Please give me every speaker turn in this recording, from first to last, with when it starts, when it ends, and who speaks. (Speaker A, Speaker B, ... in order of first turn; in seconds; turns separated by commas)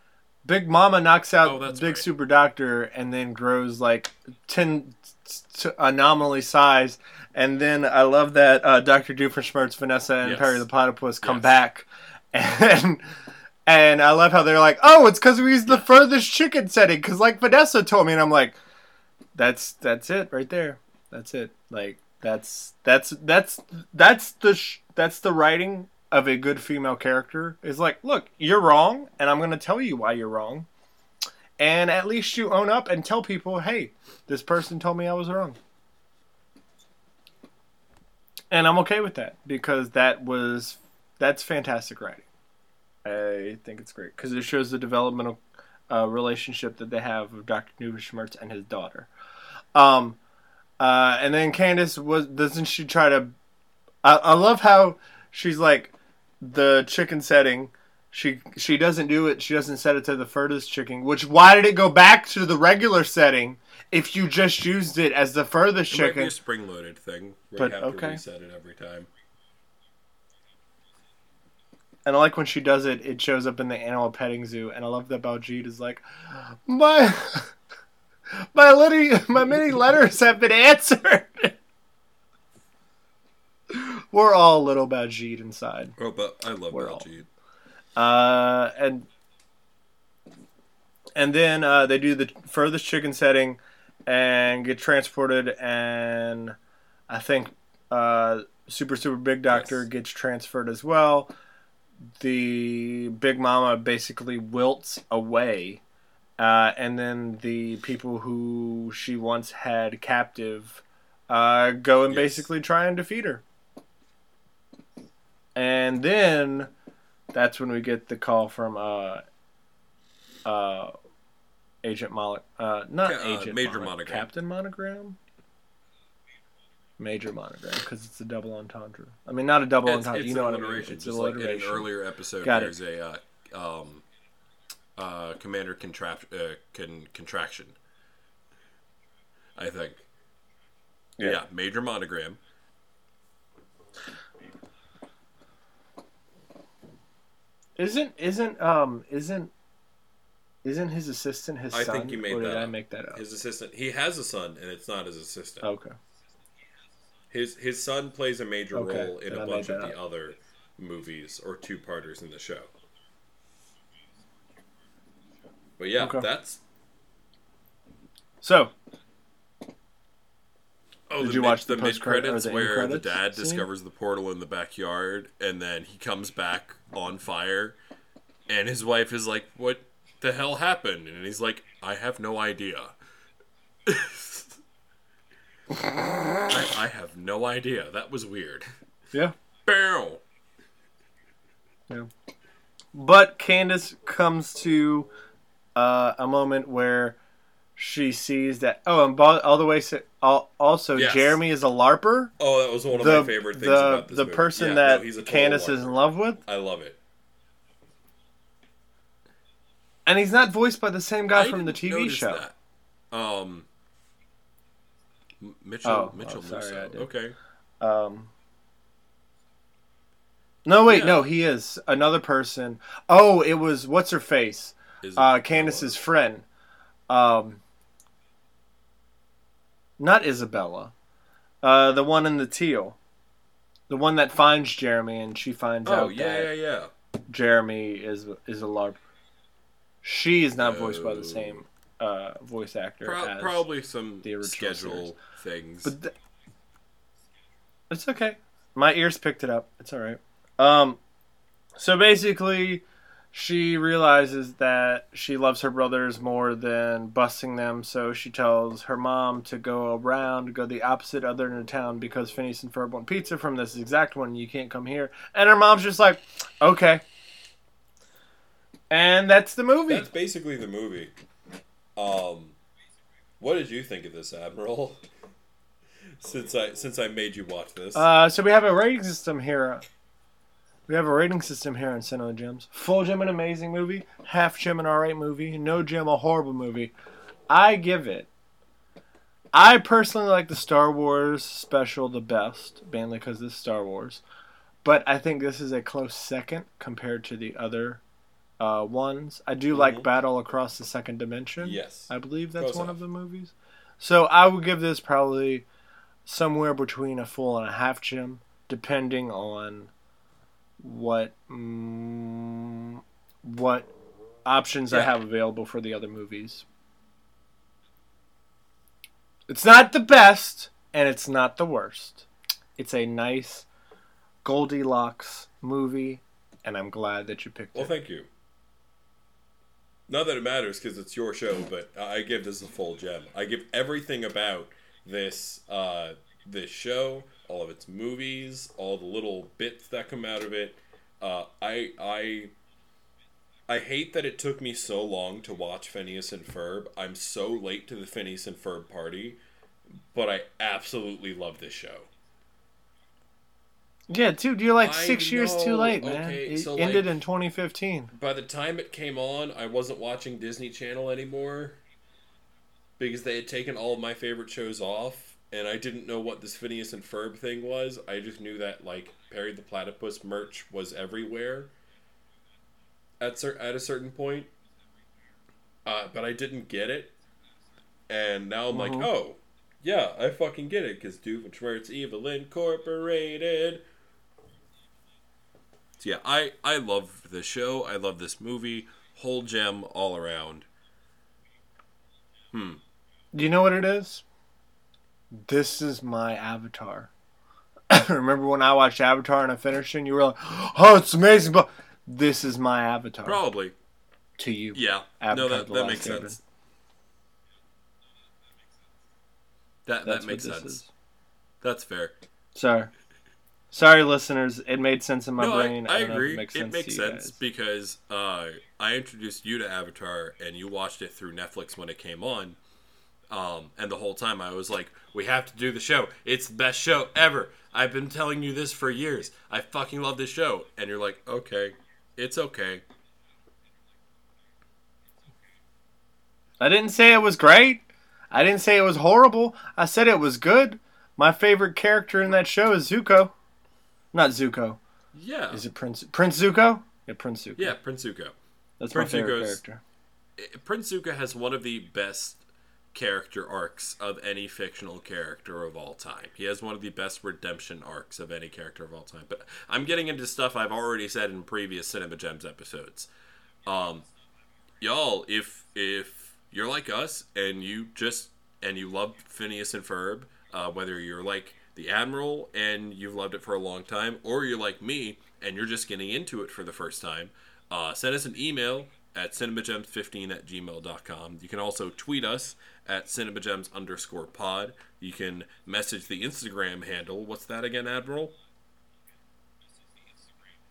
Speaker A: 0.4-13.1, Speaker B: 1.4-2.1, Speaker B: 10.2-10.6, Speaker B: 11.2-11.6, Speaker A: 13.7-18.6, Speaker A: 19.3-30.7, Speaker A: 31.6-35.6, Speaker A: 38.5-42.3, Speaker A: 43.0-49.1, Speaker A: 49.7-50.2, Speaker A: 50.8-53.3, Speaker A: 54.0-66.3, Speaker B: 65.9-69.1, Speaker A: 67.6-68.2, Speaker A: 72.0-77.5, Speaker A: 78.4-81.6, Speaker A: 83.7-86.0, Speaker B: 86.0-87.3, Speaker A: 86.7-87.0, Speaker A: 88.0-89.1, Speaker A: 91.2-96.5, Speaker A: 97.1-101.3, Speaker B: 99.5-99.9, Speaker A: 102.2-105.8, Speaker A: 106.4-113.4, Speaker B: 112.1-112.5, Speaker A: 115.5-116.7, Speaker A: 117.3-119.2, Speaker A: 120.4-120.9, Speaker A: 121.8-125.2, Speaker B: 123.0-124.3, Speaker A: 127.0-131.9, Speaker B: 129.8-134.0, Speaker A: 132.4-132.7, Speaker B: 135.0-137.8, Speaker B: 139.6-140.1, Speaker B: 141.2-142.4, Speaker A: 147.8-149.5, Speaker A: 150.6-153.2, Speaker B: 151.7-155.7, Speaker A: 155.6-155.9, Speaker B: 157.3-162.7, Speaker A: 158.7-159.9, Speaker B: 165.8-166.6, Speaker A: 166.0-166.3, Speaker A: 168.4-168.7, Speaker B: 171.1-177.8, Speaker A: 171.2-173.7, Speaker B: 178.5-182.9, Speaker B: 183.9-184.6, Speaker A: 185.7-186.5, Speaker B: 186.5-188.7, Speaker B: 189.6-190.2, Speaker A: 192.9-195.1, Speaker A: 195.8-197.2, Speaker A: 197.8-202.3, Speaker B: 200.9-201.4, Speaker B: 202.4-207.0, Speaker A: 202.9-206.4, Speaker A: 210.1-212.4, Speaker B: 211.3-212.6, Speaker B: 213.1-213.7, Speaker B: 215.4-217.4, Speaker A: 215.8-217.1, Speaker A: 217.8-218.3, Speaker A: 220.6-226.4, Speaker B: 220.9-221.3, Speaker B: 225.0-225.9, Speaker A: 227.1-227.6, Speaker A: 230.0-230.9, Speaker A: 231.6-233.0, Speaker A: 233.9-236.5, Speaker B: 235.8-236.9, Speaker A: 237.3-239.0, Speaker A: 240.0-243.7, Speaker B: 240.6-241.6, Speaker B: 243.0-245.9, Speaker A: 244.2-245.1, Speaker A: 245.8-246.1, Speaker A: 247.9-251.0, Speaker A: 251.8-267.0, Speaker A: 268.9-270.1, Speaker B: 269.9-271.1, Speaker B: 271.9-272.6, Speaker B: 273.4-275.0, Speaker B: 276.2-278.1, Speaker A: 277.9-279.8, Speaker A: 280.9-286.9, Speaker A: 287.5-288.3, Speaker A: 289.5-294.2, Speaker A: 294.8-298.0, Speaker A: 298.6-305.6, Speaker B: 299.7-300.1, Speaker B: 301.6-303.0, Speaker A: 306.3-309.9, Speaker A: 310.8-313.9, Speaker A: 314.4-316.6, Speaker A: 319.5-323.6, Speaker A: 324.4-327.9, Speaker B: 327.7-328.3, Speaker B: 330.1-342.5, Speaker B: 343.7-349.4, Speaker B: 350.1-352.1, Speaker A: 354.1-358.1, Speaker B: 354.8-357.1, Speaker B: 358.1-361.8, Speaker B: 363.0-371.7, Speaker B: 373.2-374.5, Speaker B: 375.8-377.1, Speaker B: 378.1-383.8, Speaker A: 378.7-379.1, Speaker B: 386.0-390.7, Speaker B: 392.5-392.8, Speaker A: 393.3-394.2, Speaker A: 395.3-397.1, Speaker A: 397.9-403.4, Speaker B: 403.2-403.7, Speaker A: 404.4-406.4, Speaker B: 404.7-406.4, Speaker B: 409.9-410.8, Speaker A: 410.1-410.9, Speaker B: 411.6-412.1, Speaker A: 412.6-412.9, Speaker A: 413.7-417.4, Speaker B: 415.4-422.6, Speaker B: 423.3-432.8, Speaker A: 436.6-443.3, Speaker A: 444.1-444.8, Speaker B: 445.1-445.6, Speaker A: 445.5-447.8, Speaker B: 447.6-448.4, Speaker A: 448.8-449.8, Speaker B: 448.9-449.6, Speaker B: 450.4-452.4, Speaker B: 452.9-463.1, Speaker B: 463.6-464.1, Speaker B: 464.8-488.4